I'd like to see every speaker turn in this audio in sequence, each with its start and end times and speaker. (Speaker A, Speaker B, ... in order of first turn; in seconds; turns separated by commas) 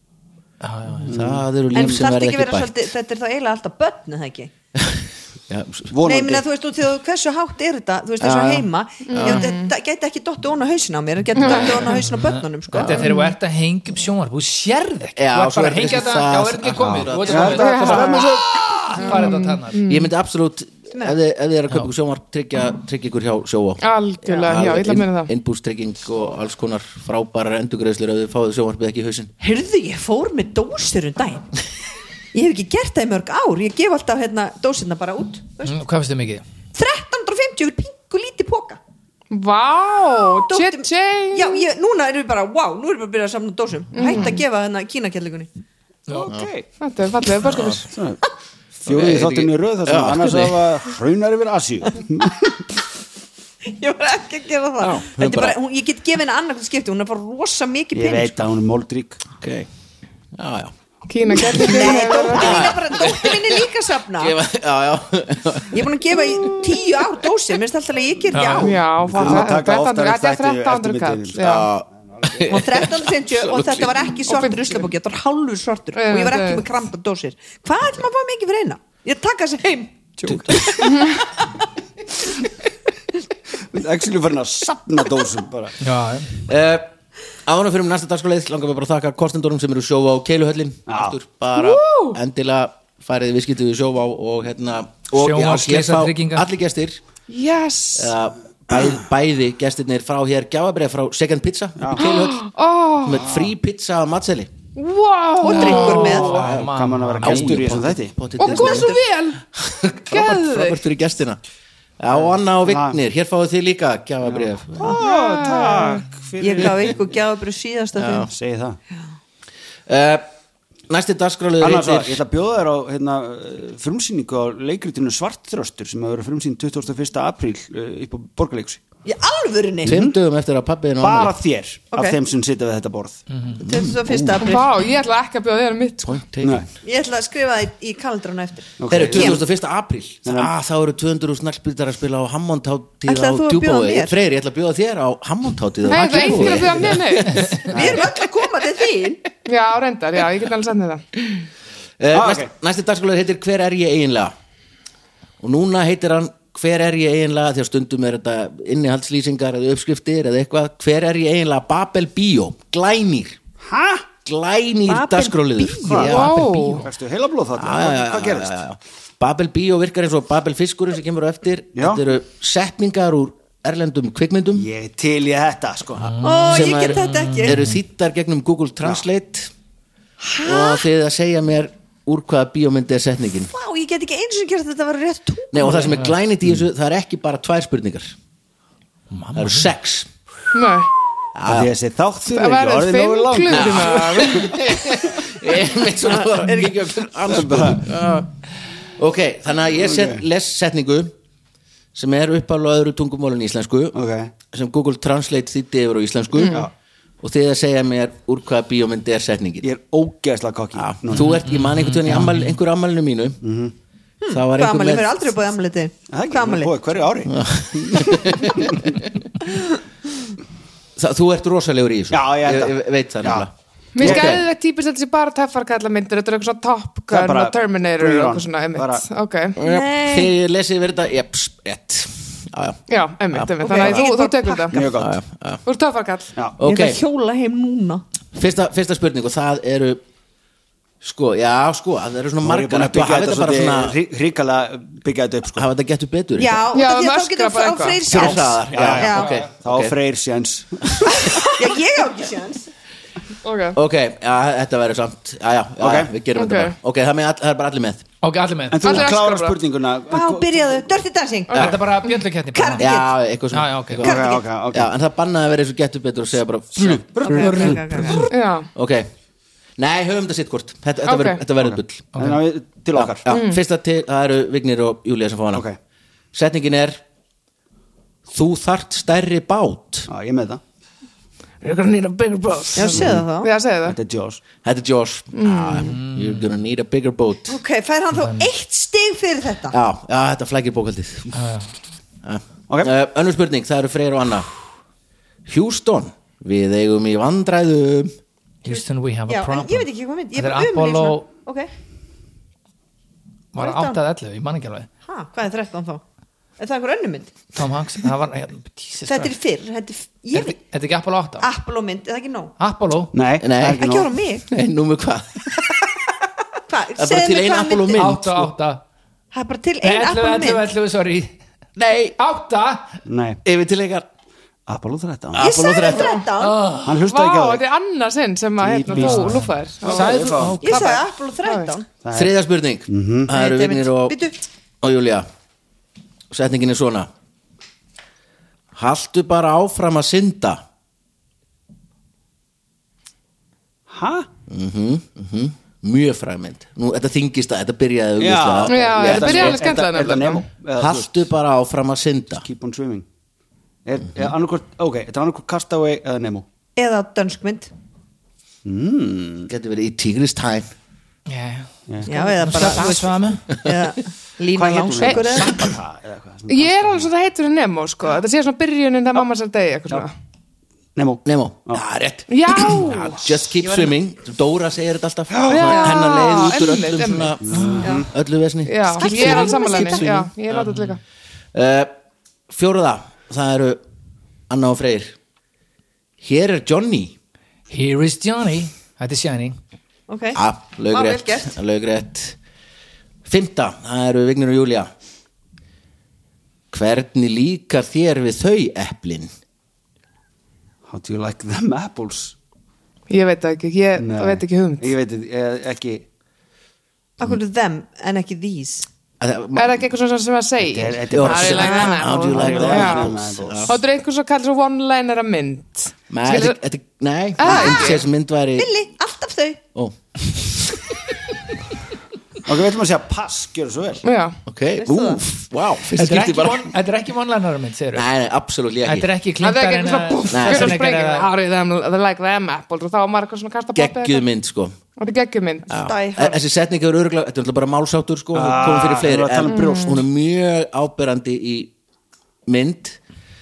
Speaker A: 0.6-1.2, Speaker B: 1.0-2.8, Speaker C: 1.0-2.0, Speaker D: 1.7-4.5, Speaker B: 4.8-5.9, Speaker C: 5.9-6.4, Speaker D: 6.0-13.1, Speaker B: 8.2-9.5, Speaker E: 9.1-9.7, Speaker E: 11.3-11.8, Speaker B: 11.5-11.8, Speaker A: 11.9-18.4, Speaker B: 12.8-13.1, Speaker E: 13.0-13.3, Speaker B: 15.2-17.9, Speaker C: 16.8-19.1, Speaker E: 17.5-18.3, Speaker A: 18.9-19.8, Speaker E: 19.0-20.1, Speaker B: 19.9-29.3, Speaker D: 20.9-21.2, Speaker E: 23.8-25.3, Speaker D: 29.4-31.5, Speaker D: 32.3-35.8, Speaker A: 35.6-36.4, Speaker D: 36.7-38.8, Speaker E: 39.3-41.6, Speaker D: 40.4-45.5, Speaker E: 43.9-44.4, Speaker C: 46.1-46.7, Speaker E: 46.8-47.9, Speaker B: 47.5-47.8, Speaker C: 47.9-48.2, Speaker C: 48.8-52.7, Speaker B: 48.9-50.7, Speaker D: 53.6-58.5, Speaker B: 54.8-55.5, Speaker C: 57.9-59.2, Speaker B: 59.4-59.7, Speaker B: 60.3-60.7, Speaker E: 61.1-62.8, Speaker B: 61.3-63.5, Speaker D: 61.5-64.4, Speaker B: 64.2-65.9, Speaker D: 65.7-69.3, Speaker A: 68.3-68.7, Speaker E: 68.5-71.7, Speaker C: 69.0-71.4, Speaker B: 71.4-74.2, Speaker D: 72.4-81.2, Speaker E: 74.3-74.7, Speaker E: 75.9-76.7, Speaker E: 80.8-81.2, Speaker C: 83.7-85.8, Speaker A: 85.8-86.3, Speaker B: 86.5-86.9, Speaker B: 87.5-97.0, Speaker C: 90.9-91.2, Speaker E: 91.5-92.2, Speaker A: 95.1-96.5, Speaker E: 97.3-98.1, Speaker B: 98.0-102.5, Speaker C: 101.8-102.0, Speaker E: 101.9-103.3, Speaker B: 103.0-104.5, Speaker C: 103.1-103.5, Speaker E: 104.8-106.4, Speaker D: 105.4-106.5, Speaker A: 105.5-107.8, Speaker B: 105.6-106.7, Speaker C: 106.5-108.3, Speaker B: 107.2-109.0, Speaker E: 108.4-109.4, Speaker D: 108.5-109.0, Speaker B: 109.5-111.4, Speaker E: 110.1-110.8, Speaker B: 112.0-114.9, Speaker C: 112.1-113.0, Speaker C: 114.2-117.0, Speaker D: 114.8-118.3, Speaker E: 115.0-116.0, Speaker B: 118.0-118.3, Speaker C: 118.3-118.8, Speaker B: 119.9-120.2, Speaker B: 120.9-122.2, Speaker C: 121.6-128.8, Speaker D: 129.1-130.0, Speaker B: 129.8-131.3, Speaker C: 129.8-130.2, Speaker C: 131.0-133.2, Speaker D: 131.9-132.2, Speaker A: 133.3-133.6, Speaker B: 133.6-134.5, Speaker D: 133.6-134.7, Speaker E: 134.4-136.1, Speaker B: 136.0-136.7, Speaker C: 136.4-136.7, Speaker D: 136.8-139.4, Speaker C: 138.8-139.4, Speaker B: 138.9-148.0, Speaker C: 140.2-140.5, Speaker D: 143.1-144.2, Speaker E: 145.8-147.7, Speaker A: 147.3-147.6, Speaker C: 147.7-148.1, Speaker D: 147.7-149.2, Speaker E: 149.4-151.0, Speaker B: 152.0-154.3, Speaker C: 152.1-152.5, Speaker B: 155.4-163.4, Speaker C: 163.6-164.1, Speaker B: 164.2-166.5, Speaker D: 164.9-166.4, Speaker C: 165.8-166.2, Speaker E: 166.0-166.9, Speaker A: 166.1-166.8, Speaker C: 166.8-168.6, Speaker B: 167.6-174.7, Speaker C: 171.7-172.0, Speaker C: 174.5-176.0, Speaker B: 175.9-179.5, Speaker A: 176.0-177.8, Speaker D: 176.2-177.6, Speaker D: 180.2-180.8, Speaker B: 180.4-183.5, Speaker D: 183.5-186.0, Speaker B: 185.5-188.1, Speaker A: 185.9-186.1, Speaker A: 189.1-189.7, Speaker B: 189.3-190.1, Speaker E: 190.5-190.9, Speaker B: 191.3-191.7, Speaker C: 191.4-194.7, Speaker E: 192.3-194.6, Speaker B: 193.5-198.4, Speaker D: 196.0-196.8, Speaker C: 197.3-197.9, Speaker B: 199.0-201.1, Speaker C: 199.7-200.2, Speaker B: 201.9-204.0, Speaker C: 203.9-204.3, Speaker B: 204.5-206.7, Speaker E: 206.3-206.7, Speaker B: 207.2-209.7, Speaker C: 209.6-211.4, Speaker B: 210.8-213.4, Speaker A: 211.1-212.6, Speaker C: 213.4-213.7, Speaker D: 214.2-216.8, Speaker B: 214.3-215.2, Speaker C: 216.1-218.8, Speaker B: 217.3-219.1, Speaker B: 221.0-224.4, Speaker C: 222.1-223.5, Speaker E: 223.9-229.6, Speaker C: 224.0-224.4, Speaker C: 227.1-229.0, Speaker B: 229.6-234.0, Speaker D: 229.6-230.3, Speaker E: 232.9-234.9, Speaker D: 233.6-234.8, Speaker C: 234.7-235.2, Speaker B: 235.0-235.6, Speaker E: 235.6-236.3, Speaker B: 236.6-237.0, Speaker D: 236.6-238.0, Speaker B: 238.3-240.0, Speaker B: 241.0-244.0, Speaker C: 242.4-245.7, Speaker B: 245.6-246.6, Speaker D: 246.4-249.3, Speaker E: 246.7-248.1, Speaker B: 248.1-249.9, Speaker C: 248.1-251.4, Speaker D: 251.2-252.7, Speaker E: 253.4-253.8, Speaker B: 253.7-258.1, Speaker C: 255.8-256.1, Speaker E: 256.3-256.8, Speaker A: 258.2-259.1, Speaker C: 258.7-260.9, Speaker E: 258.8-259.6, Speaker D: 260.1-261.9, Speaker A: 261.5-262.9, Speaker D: 262.5-263.2, Speaker B: 262.8-269.1, Speaker A: 263.5-264.0, Speaker C: 264.0-264.9, Speaker D: 264.0-264.4, Speaker C: 266.7-268.2, Speaker D: 267.2-268.3, Speaker E: 268.3-268.7, Speaker B: 269.8-272.1, Speaker E: 271.0-271.4, Speaker C: 271.6-273.3, Speaker A: 272.1-272.4, Speaker B: 272.9-275.6, Speaker E: 273.3-273.6, Speaker B: 276.3-277.0, Speaker B: 278.3-280.1, Speaker C: 280.1-280.6, Speaker A: 281.6-283.0, Speaker E: 282.7-284.0, Speaker D: 282.7-283.5, Speaker C: 282.9-283.2, Speaker C: 283.8-284.4, Speaker B: 284.6-287.6, Speaker E: 285.3-286.0, Speaker A: 285.8-286.5, Speaker D: 287.5-289.8, Speaker A: 288.1-288.5, Speaker B: 289.7-291.4, Speaker A: 291.3-291.7, Speaker B: 292.2-294.5, Speaker B: 295.4-298.1, Speaker A: 298.6-301.3, Speaker D: 298.7-301.7, Speaker A: 303.5-304.9, Speaker D: 303.6-304.0, Speaker D: 305.1-306.0, Speaker D: 306.6-307.4, Speaker A: 307.6-309.3, Speaker D: 309.1-310.6, Speaker A: 310.3-311.4, Speaker D: 311.4-312.5, Speaker A: 312.6-313.1, Speaker C: 313.1-314.1, Speaker B: 313.4-313.9, Speaker D: 313.7-314.4, Speaker B: 314.5-315.8, Speaker D: 316.7-318.1, Speaker B: 317.0-318.5, Speaker A: 317.9-318.8, Speaker D: 319.3-320.6, Speaker A: 319.8-321.3, Speaker B: 321.8-322.2, Speaker A: 322.2-323.0, Speaker C: 323.1-323.4, Speaker B: 323.4-324.1, Speaker C: 324.7-325.5, Speaker B: 325.3-326.3, Speaker D: 325.4-326.6, Speaker A: 326.4-327.0, Speaker C: 326.8-327.6, Speaker E: 327.0-331.7, Speaker C: 328.6-330.6, Speaker A: 328.9-331.0, Speaker D: 330.6-331.9, Speaker C: 332.0-332.4, Speaker B: 332.1-334.1, Speaker C: 332.9-333.3, Speaker D: 333.3-334.4, Speaker B: 334.8-335.3, Speaker B: 336.3-337.1, Speaker B: 338.7-340.6, Speaker C: 343.9-344.3, Speaker B: 344.5-349.7, Speaker C: 348.2-351.3, Speaker E: 348.7-350.5, Speaker B: 350.8-352.4, Speaker C: 352.4-353.1, Speaker C: 353.8-356.4, Speaker D: 356.8-357.7, Speaker C: 358.6-359.5, Speaker B: 359.5-360.7, Speaker A: 361.3-363.4, Speaker D: 362.1-365.7, Speaker C: 364.5-367.1, Speaker E: 365.0-365.4, Speaker E: 366.5-370.1, Speaker C: 370.9-371.8, Speaker B: 371.2-380.3, Speaker E: 372.3-373.2, Speaker C: 375.3-375.9, Speaker E: 375.5-377.4, Speaker C: 377.4-378.1, Speaker A: 377.5-377.9, Speaker E: 378.6-381.0, Speaker D: 378.9-380.1, Speaker A: 380.5-380.9, Speaker B: 381.5-381.9, Speaker B: 382.5-383.8, Speaker B: 384.5-385.1, Speaker B: 386.2-387.1, Speaker A: 387.7-389.6, Speaker D: 390.1-391.5, Speaker B: 390.4-392.4, Speaker B: 393.2-394.9, Speaker B: 396.7-399.3, Speaker C: 400.9-402.4, Speaker E: 403.1-404.9, Speaker C: 404.0-406.1, Speaker D: 407.2-408.9, Speaker B: 409.2-409.9, Speaker E: 409.6-416.6, Speaker C: 410.6-413.8, Speaker B: 411.1-413.8, Speaker D: 411.5-412.7, Speaker B: 416.1-418.7, Speaker E: 417.4-418.0, Speaker D: 417.4-418.0, Speaker D: 418.6-419.6, Speaker B: 419.7-420.9, Speaker C: 422.4-424.0, Speaker E: 424.0-424.4, Speaker B: 424.4-426.7, Speaker D: 424.8-425.2, Speaker A: 425.9-428.1, Speaker B: 427.9-429.1, Speaker A: 428.8-431.3, Speaker E: 429.4-434.2, Speaker B: 430.3-430.8, Speaker B: 433.7-434.8, Speaker E: 435.0-435.7, Speaker B: 435.7-441.7, Speaker D: 435.8-436.4, Speaker C: 438.3-440.0, Speaker E: 439.5-440.0, Speaker B: 442.4-443.0